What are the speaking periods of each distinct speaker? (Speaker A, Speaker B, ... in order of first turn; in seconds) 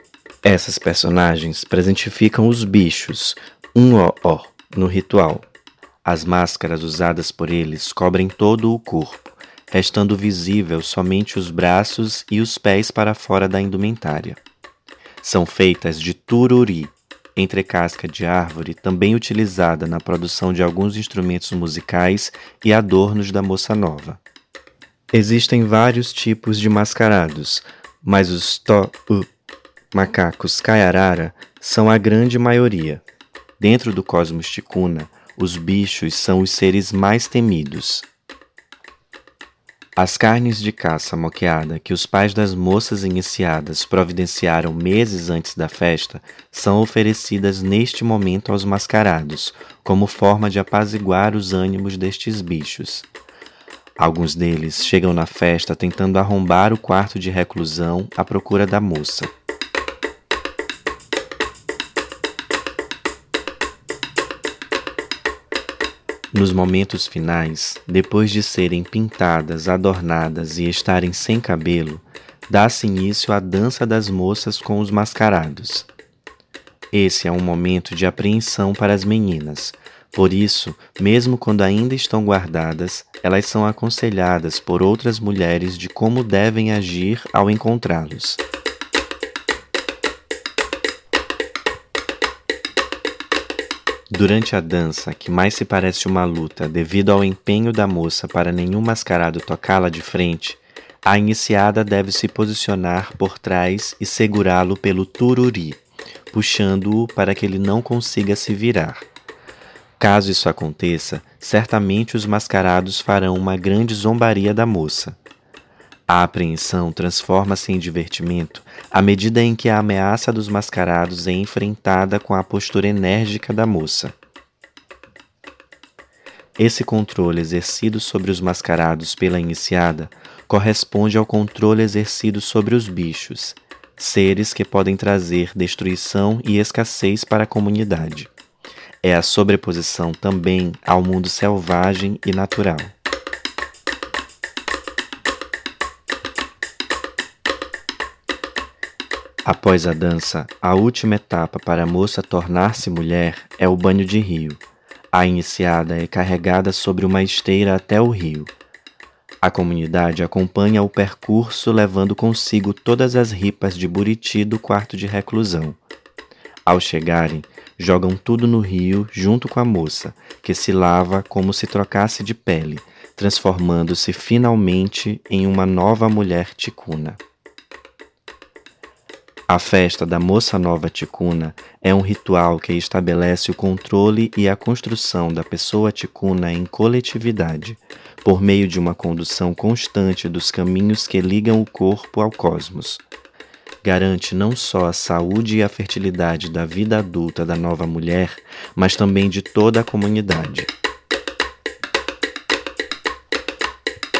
Speaker A: 0.4-5.5, 6.0-14.4, 15.2-24.2, 25.1-29.3, 29.9-33.0, 33.6-38.1, 40.0-53.1, 54.0-59.3, 66.3-75.9, 76.9-88.4, 94.1-109.1, 110.0-115.2, 116.1-124.1, 126.6-138.3, 139.0-142.9, 149.4-154.6, 155.1-158.5, 159.4-165.8, 166.7-177.2, 179.5-193.0, 193.8-200.7